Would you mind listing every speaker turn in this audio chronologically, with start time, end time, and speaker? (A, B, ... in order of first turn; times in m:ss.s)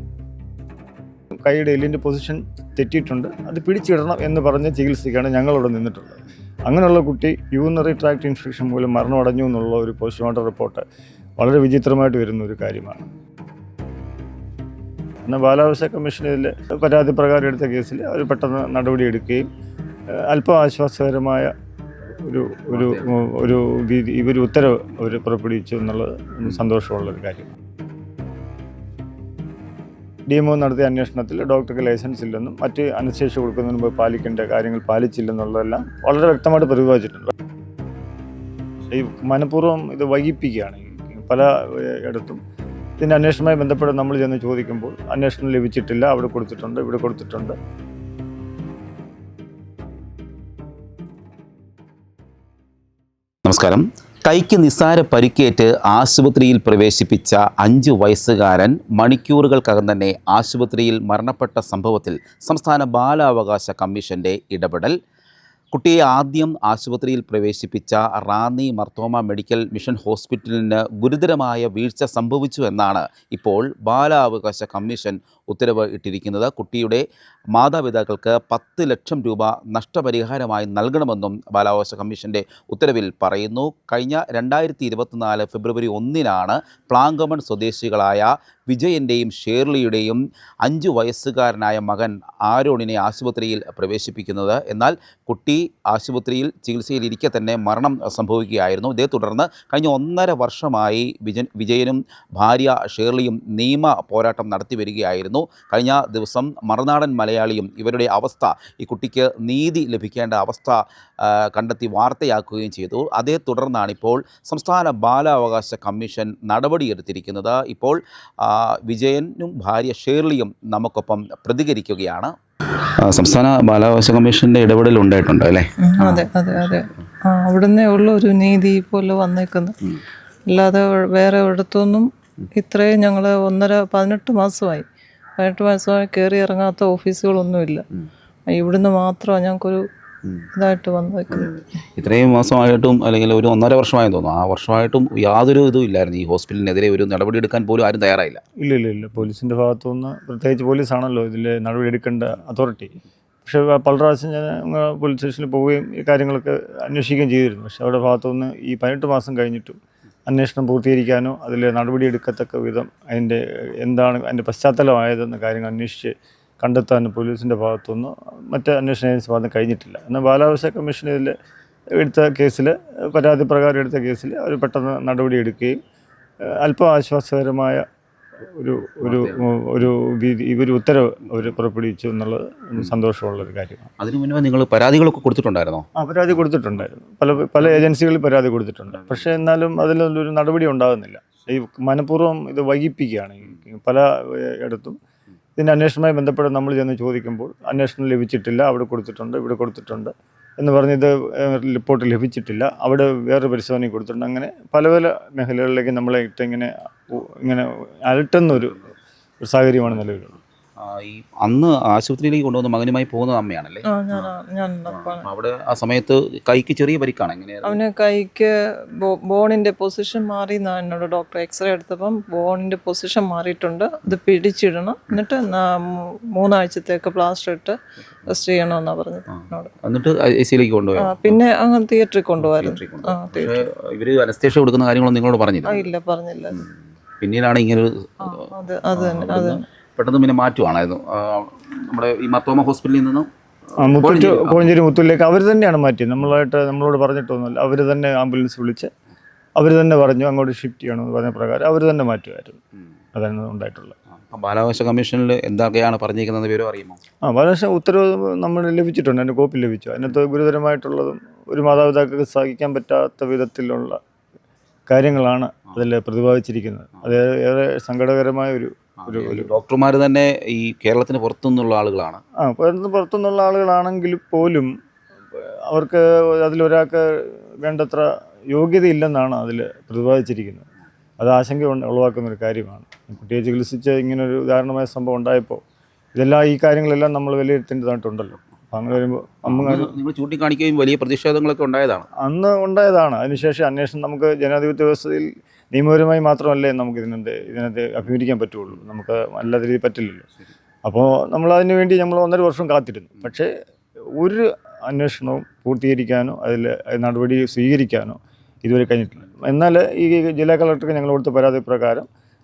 0:01.4-0:10.8 A
0:11.4-0:13.1 A
0:15.3-0:19.5 A
0:20.2-0:21.5 A
0:22.2-0:27.5 A
0:22.7-0:23.1 B
0:30.3-0:37.4 A
0:38.9-0:42.4 A
0:43.0-0:47.6 A
0:53.4-1:04.9 B
1:05.7-2:02.3 B
2:03.0-2:06.3 B
2:05.8-2:09.8 C
2:10.5-2:14.9 C
2:15.4-2:17.8 C
2:18.5-2:19.8 C
2:20.6-2:21.6 C
2:21.3-2:28.4 B
2:28.6-2:51.4 A
2:52.0-2:55.8 A
2:56.6-2:57.8 A
2:58.6-3:03.9 A
2:59.0-2:59.5 B
3:04.0-3:05.9 B
3:06.0-3:15.0 A
3:09.0-3:09.3 B
3:15.6-3:28.9 A
3:29.4-3:30.4 A
3:30.8-3:34.3 B
3:33.9-3:35.3 C
3:34.9-3:37.8 B
3:37.6-3:49.8 C
3:49.3-3:51.4 B
3:51.0-3:53.7 C
3:52.4-3:55.9 B
3:55.6-3:56.7 C
3:56.5-4:03.3 B
3:58.2-3:59.6 C
4:03.8-4:08.9 A
4:03.8-4:04.7 B
4:09.6-4:12.6 A
4:13.1-4:13.9 A
4:14.3-4:17.0 B
4:17.2-4:24.0 A
4:24.9-4:29.5 A
4:29.1-4:32.2 B
4:32.4-4:34.7 A
4:35.3-4:40.7 A
4:41.2-4:45.6 A
4:46.2-4:50.0 A
4:49.5-4:52.1 B
4:52.2-5:00.3 A
5:00.9-5:03.5 A
5:04.2-5:12.1 A